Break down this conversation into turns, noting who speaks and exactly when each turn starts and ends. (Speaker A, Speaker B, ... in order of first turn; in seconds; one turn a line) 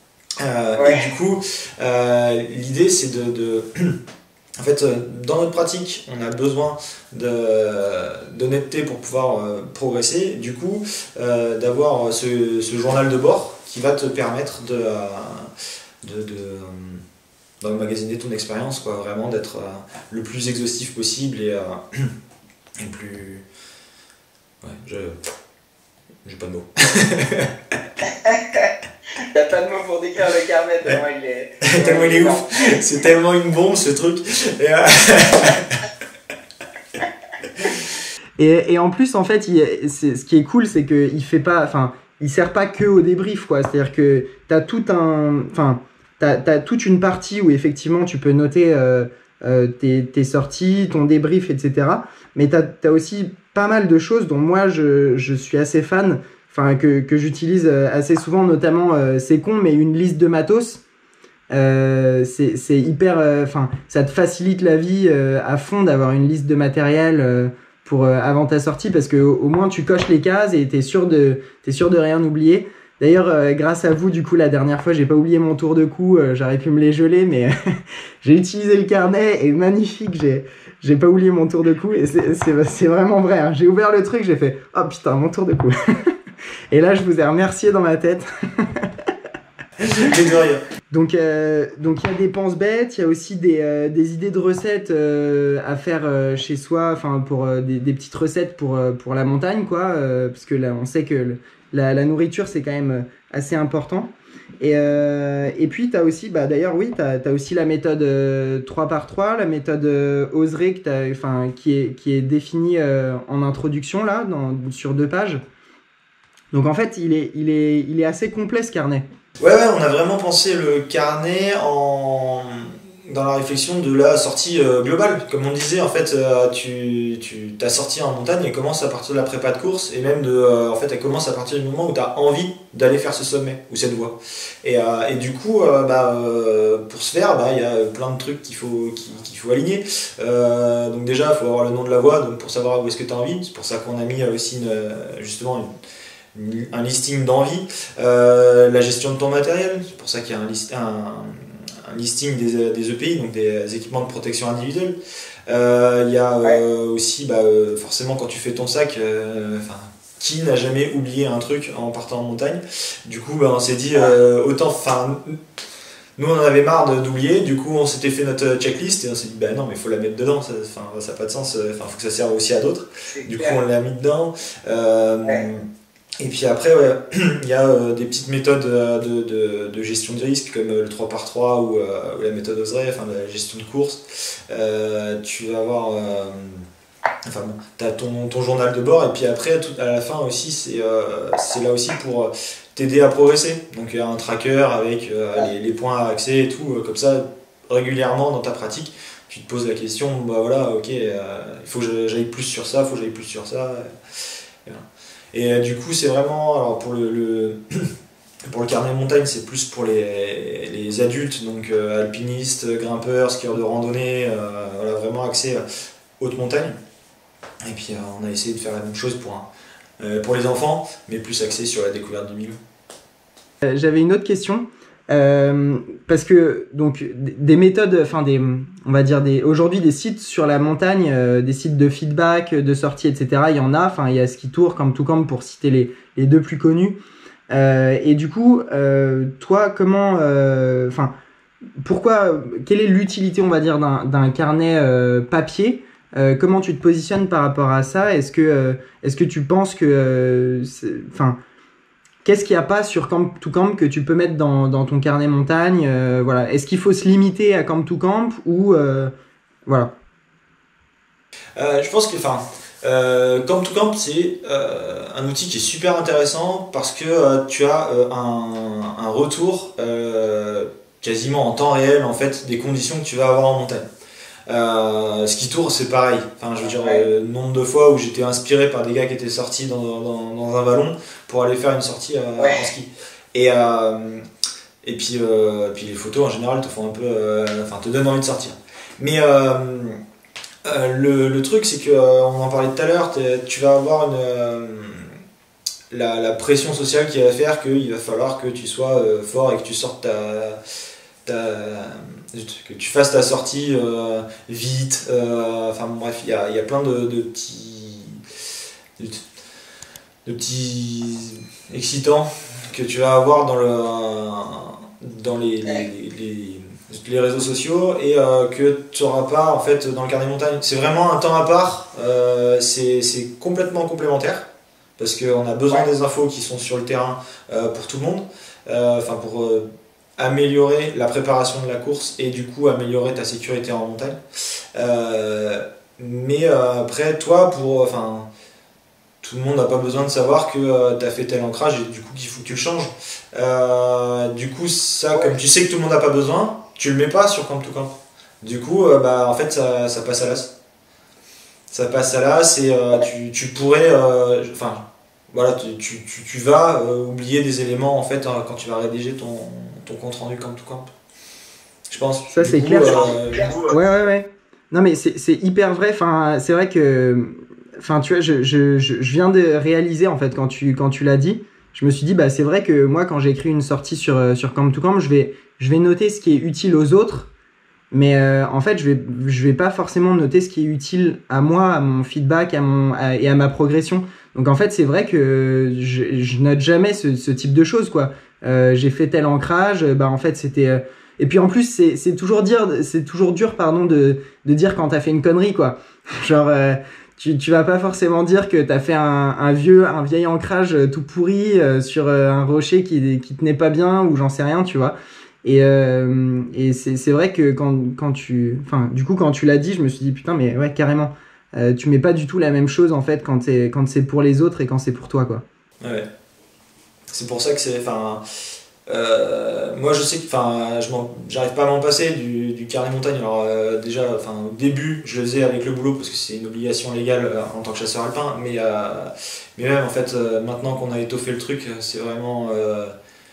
Speaker A: 0.4-4.0
Speaker B: 0.8-1.1
Speaker A: 4.6-15.5
Speaker A: 16.0-17.0
Speaker A: 17.6-22.1
Speaker A: 22.8-23.4
Speaker A: 24.6-25.2
Speaker A: 26.2-27.8
Speaker B: 28.1-32.8
Speaker A: 31.6-35.8
Speaker C: 38.4-60.8
Speaker C: 61.5-86.1
Speaker C: 86.7-88.9
Speaker A: 89.9-90.6
Speaker C: 90.9-115.4
Speaker C: 116.5-119.0
Speaker A: 119.4-145.7
Speaker A: 146.3-154.9
Speaker A: 155.5-165.4
Speaker A: 166.2-175.6
Speaker B: 173.1-173.6
Speaker A: 176.2-186.7
Speaker A: 187.2-203.9
Speaker A: 204.6-207.9
Speaker A: 208.5-215.6
Speaker A: 216.2-216.7
Speaker A: 217.6-219.5
Speaker A: 220.0-222.6
Speaker C: 223.6-237.0
Speaker C: 237.5-241.1
Speaker C: 241.8-251.4
Speaker C: 252.2-259.1
Speaker C: 259.6-259.9
Speaker A: 261.6-273.8
Speaker A: 274.5-284.2
Speaker B: 276.7-277.0
Speaker B: 282.4-282.7
Speaker A: 284.8-290.0
Speaker A: 290.6-295.2
Speaker A: 295.9-300.6
Speaker A: 301.2-308.2
Speaker A: 309.0-309.2
Speaker A: 310.2-324.5
Speaker A: 325.0-329.6
Speaker A: 330.2-334.2
Speaker A: 334.7-338.3
Speaker A: 339.2-350.5
Speaker A: 351.7-360.9
Speaker A: 361.9-363.8
Speaker C: 362.3-377.3
Speaker C: 377.9-415.4
Speaker A: 415.8-416.1
Speaker A: 417.1-418.2
Speaker A: 418.9-432.9